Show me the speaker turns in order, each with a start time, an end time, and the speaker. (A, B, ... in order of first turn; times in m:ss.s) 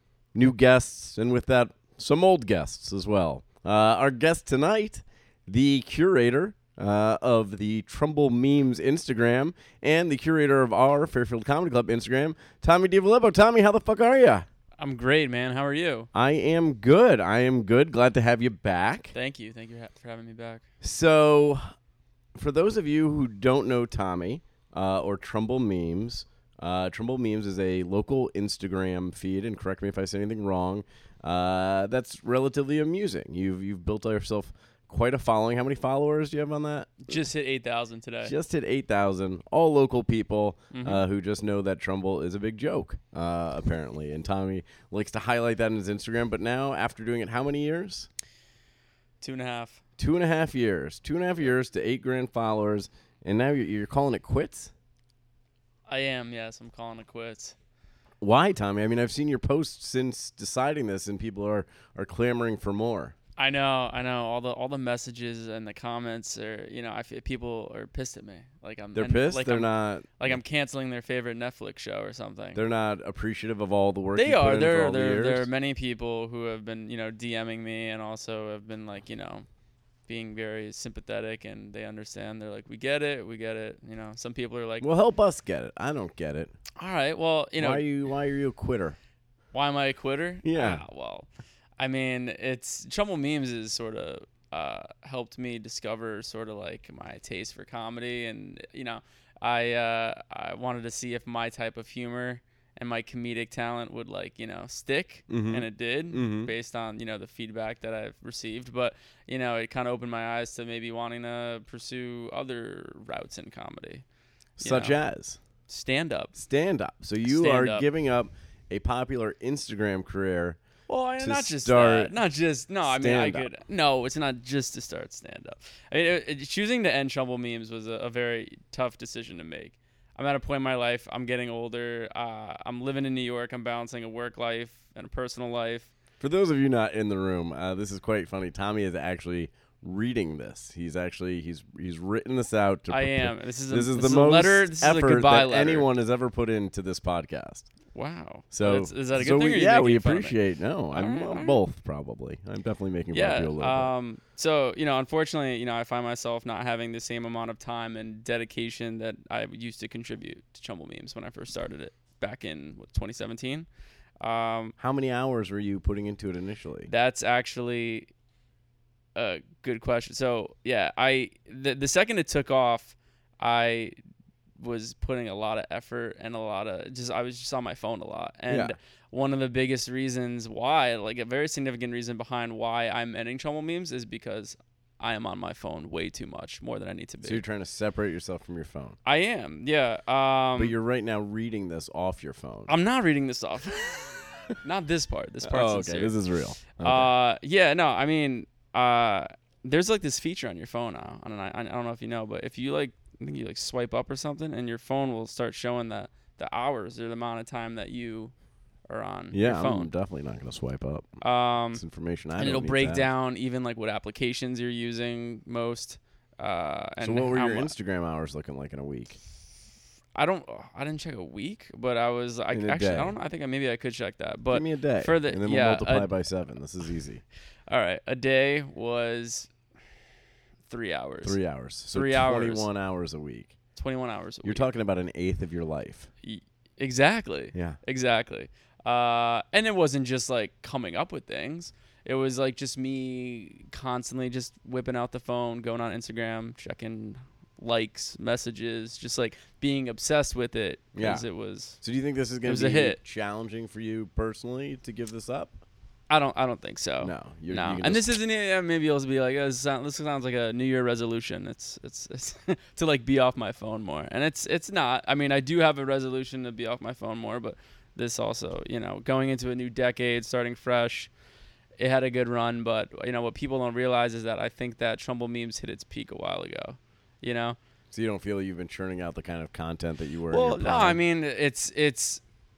0:00.3-0:14.4 A
0:14.8-0:16.1 B
0:16.1-0:19.1 A
0:19.1-0:20.6 B
0:20.8-0:21.6 A
0:22.4-0:37.2 A
0:37.0-0:38.3 B
0:38.2-0:48.1 A
0:40.7-0:41.0 B
0:49.2-0:49.8 B
0:50.0-0:54.7 A
0:55.9-0:57.6 B
0:58.2-1:03.1 A
1:03.4-1:12.6 B
1:08.9-1:10.4 A
1:12.5-1:15.5 A
1:14.1-1:19.4 B
1:20.1-1:24.9 B
1:24.8-1:26.5 A
1:26.8-1:27.8 B
1:27.6-1:29.0 A
1:29.5-1:54.0 B
1:30.4-1:30.8 A
1:45.3-1:46.5 A
1:54.6-1:55.4 A
1:54.6-1:55.0 B
1:55.7-1:56.3 B
1:56.3-2:00.6 A
1:57.2-1:57.9 B
2:00.9-2:15.9 B
2:01.2-2:02.2 A
2:02.8-2:03.5 A
2:16.2-2:27.7 A
2:22.9-2:25.9 B
2:27.9-2:30.4 B
2:28.5-2:33.9 A
2:30.9-2:31.6 B
2:33.1-2:43.7 B
2:44.2-2:44.7 B
2:44.8-2:46.9 A
2:46.9-2:48.1 B
2:49.1-2:54.0 B
2:54.6-3:07.4 B
2:58.5-2:58.8 A
3:07.2-3:09.0 A
3:09.0-3:10.7 B
3:10.6-3:12.7 A
3:12.7-3:16.1 B
3:15.4-3:17.1 A
3:16.8-3:28.3 B
3:28.9-3:29.9 B
3:29.3-3:31.2 A
3:31.2-3:31.8 B
3:31.7-3:33.1 A
3:32.4-3:37.7 B
3:37.0-3:39.2 A
3:40.1-3:46.1 B
3:42.5-3:43.2 A
3:44.5-3:47.2 A
3:47.7-3:49.5 B
3:50.7-3:51.4 B
3:51.2-3:53.5 A
3:51.9-3:52.7 B
3:53.8-3:54.7 B
3:54.4-3:56.1 A
3:56.2-4:11.8 B
4:10.9-4:11.2 A
4:11.8-4:15.6 A
4:12.4-4:13.0 B
4:16.1-4:31.1 B
4:17.0-4:18.2 A
4:31.8-4:37.6 B
4:37.9-4:41.0 A
4:40.3-4:42.2 B